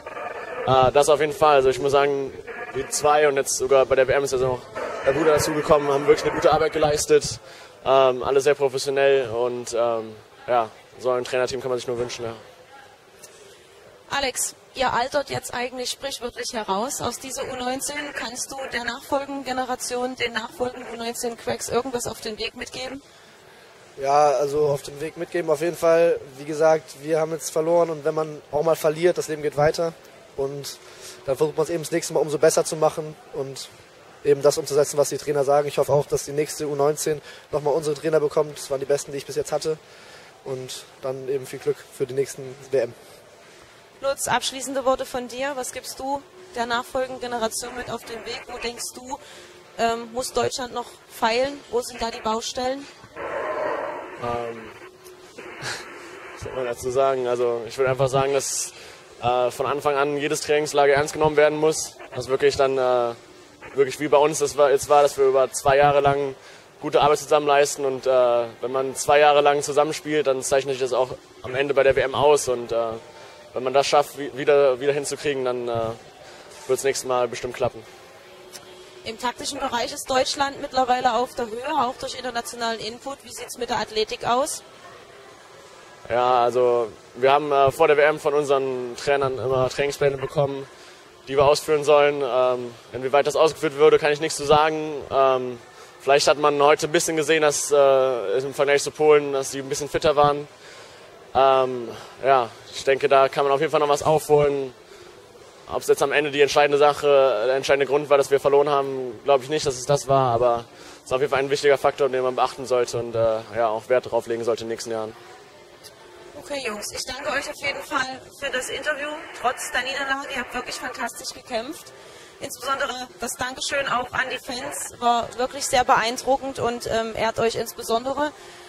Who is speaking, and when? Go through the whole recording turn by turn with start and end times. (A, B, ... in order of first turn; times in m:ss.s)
0:00.6-0:12.4 A
0:14.1-0:23.0 B
0:24.0-0:33.7 C
0:34.2-0:39.8 C
0:40.4-0:43.0 C
0:44.0-0:49.2 B
0:49.8-0:52.9 B
0:54.2-0:54.7 A
0:56.4-1:03.2 A
1:03.7-1:13.0 A
1:13.5-1:16.0 A
1:16.7-1:17.8 A
1:19.0-1:24.6 B
1:26.0-1:30.7 A
1:31.3-1:40.5 A
1:41.3-1:44.7 A
1:45.7-1:55.2 A
1:56.3-2:08.3 B